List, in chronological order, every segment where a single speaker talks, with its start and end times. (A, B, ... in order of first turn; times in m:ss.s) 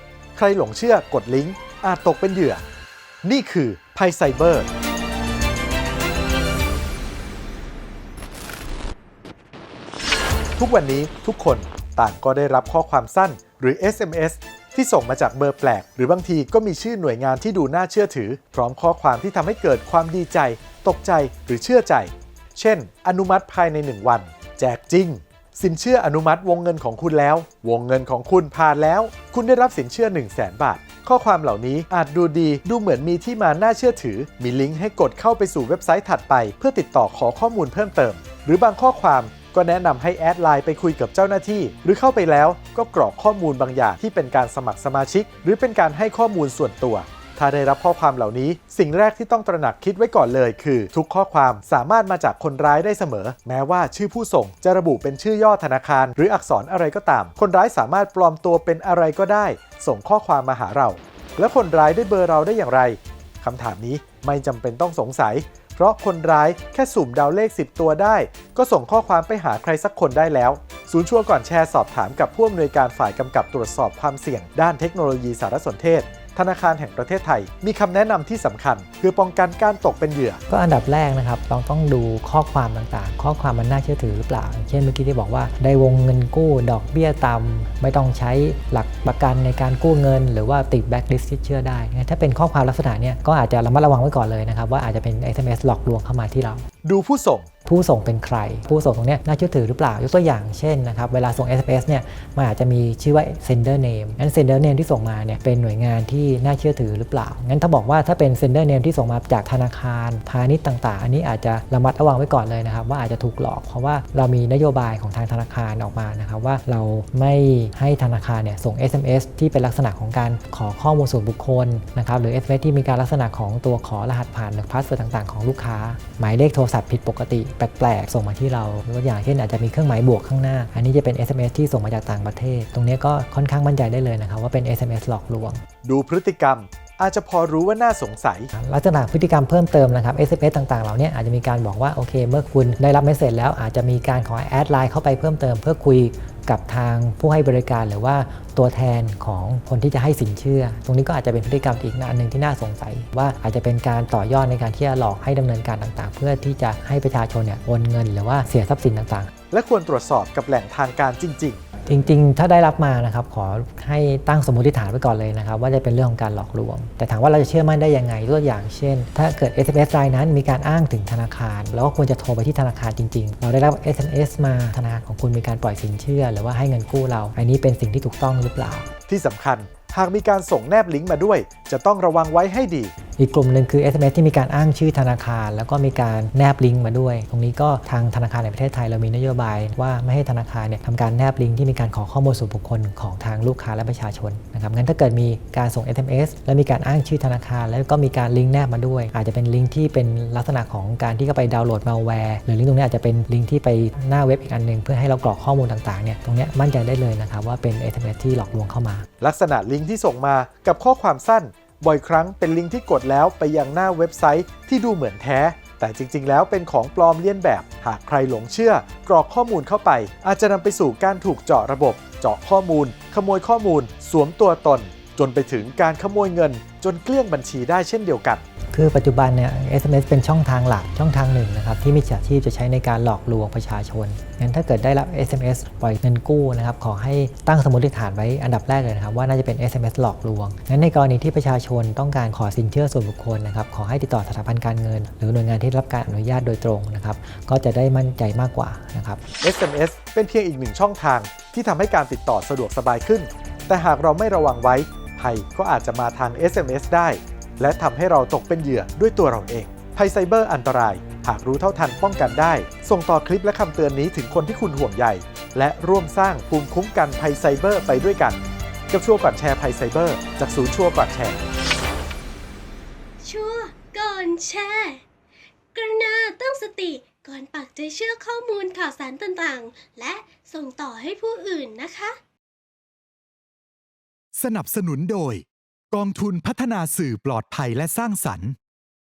0:00.3-0:02.6 A
0:03.2-0:04.7 A
0:10.6-1:20.4 A
1:20.5-1:36.6 B
1:36.8-1:37.5 A
1:37.6-2:15.6 B
2:15.8-2:18.5 A
2:18.5-2:39.3 B
2:39.5-2:41.6 A
2:41.8-2:58.9 B
2:59.1-3:02.9 A
3:03.2-3:29.1 B
3:29.2-3:48.4 A
3:48.7-4:09.2 B
4:09.4-4:28.4 A
4:28.9-4:31.4 A
4:33.2-4:35.0 C
4:35.7-4:42.2 C
4:44.3-4:48.6 D